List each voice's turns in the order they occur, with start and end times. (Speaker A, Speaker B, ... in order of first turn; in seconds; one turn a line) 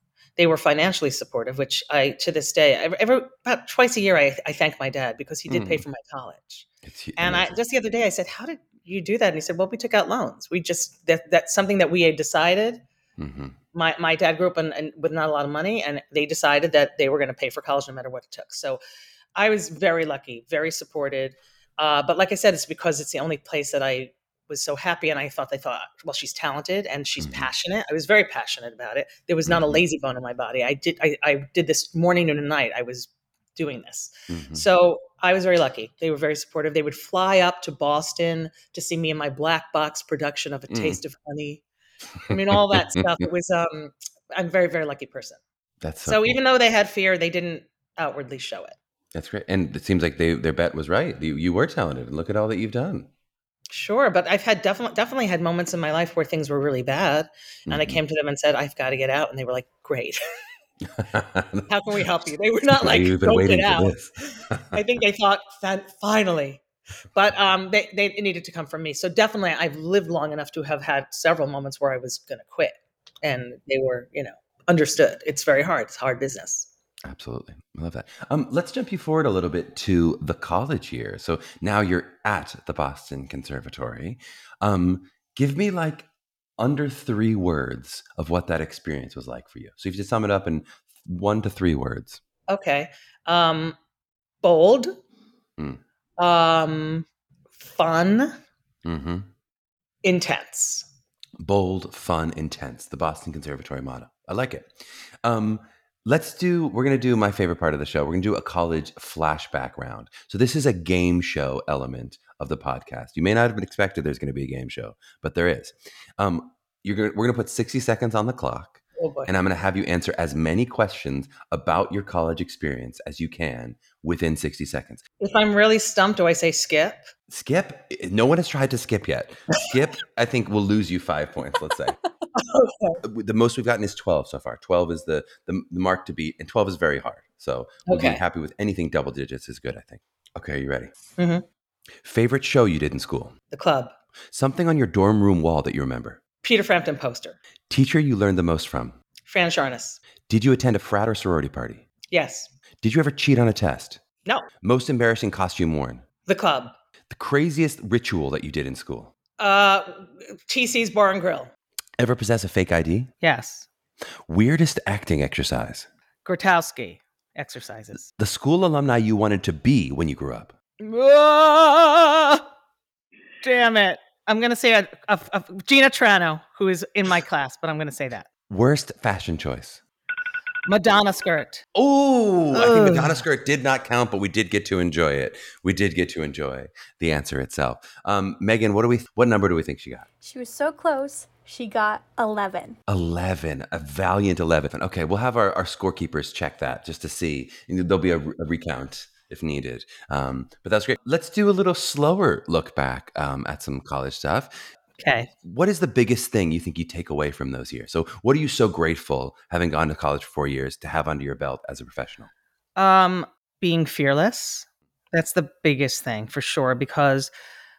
Speaker A: 0.4-12.8
Speaker B: 5.5-5.8
Speaker B: 6.8-7.6
Speaker B: 13.2-13.6
Speaker A: 13.7-18.8
Speaker A: 19.4-41.6
Speaker B: 27.2-27.5
Speaker B: 29.4-29.8
Speaker B: 34.3-34.6
Speaker B: 40.7-41.0
Speaker A: 42.3-45.4
Speaker B: 42.7-43.0
Speaker B: 45.8-46.4
Speaker A: 46.0-48.8
Speaker B: 49.1-53.1
Speaker A: 53.7-60.2
Speaker B: 57.7-58.0
Speaker B: 60.9-61.7
Speaker A: 61.7-63.9
Speaker B: 62.7-64.8
Speaker A: 64.7-66.6
Speaker A: 67.1-76.7
Speaker B: 77.0-86.1
Speaker B: 86.6-92.2
Speaker A: 92.5-93.8
Speaker A: 94.4-94.9
Speaker A: 96.2-97.0
Speaker A: 97.6-98.4
Speaker B: 98.8-99.3
Speaker A: 100.0-100.9
Speaker B: 101.4-125.0
Speaker A: 119.0-119.3
Speaker A: 125.2-127.0
Speaker B: 127.3-132.0
Speaker A: 132.3-133.0
Speaker B: 133.0-140.9
Speaker A: 137.9-138.2
Speaker A: 141.2-141.4
Speaker B: 142.0-143.3
Speaker A: 143.5-143.9
Speaker B: 144.3-146.2
Speaker A: 146.4-147.4
Speaker B: 147.7-149.0
Speaker A: 149.3-150.0
Speaker B: 150.3-151.8
Speaker A: 152.1-152.5
Speaker B: 152.8-154.0
Speaker B: 154.6-156.0
Speaker A: 156.2-156.7
Speaker B: 157.1-159.1
Speaker A: 159.4-161.5
Speaker B: 162.0-163.1
Speaker A: 163.2-163.7
Speaker B: 164.3-165.9
Speaker A: 166.2-168.0
Speaker B: 168.2-170.5
Speaker A: 170.8-172.4
Speaker A: 173.4-178.3
Speaker B: 178.5-179.8
Speaker A: 180.7-181.6
Speaker B: 181.7-190.1
Speaker A: 182.5-183.2
Speaker C: 190.2-192.8
Speaker B: 192.9-204.6
Speaker A: 205.0-205.3
Speaker B: 205.4-212.3
Speaker A: 212.8-217.3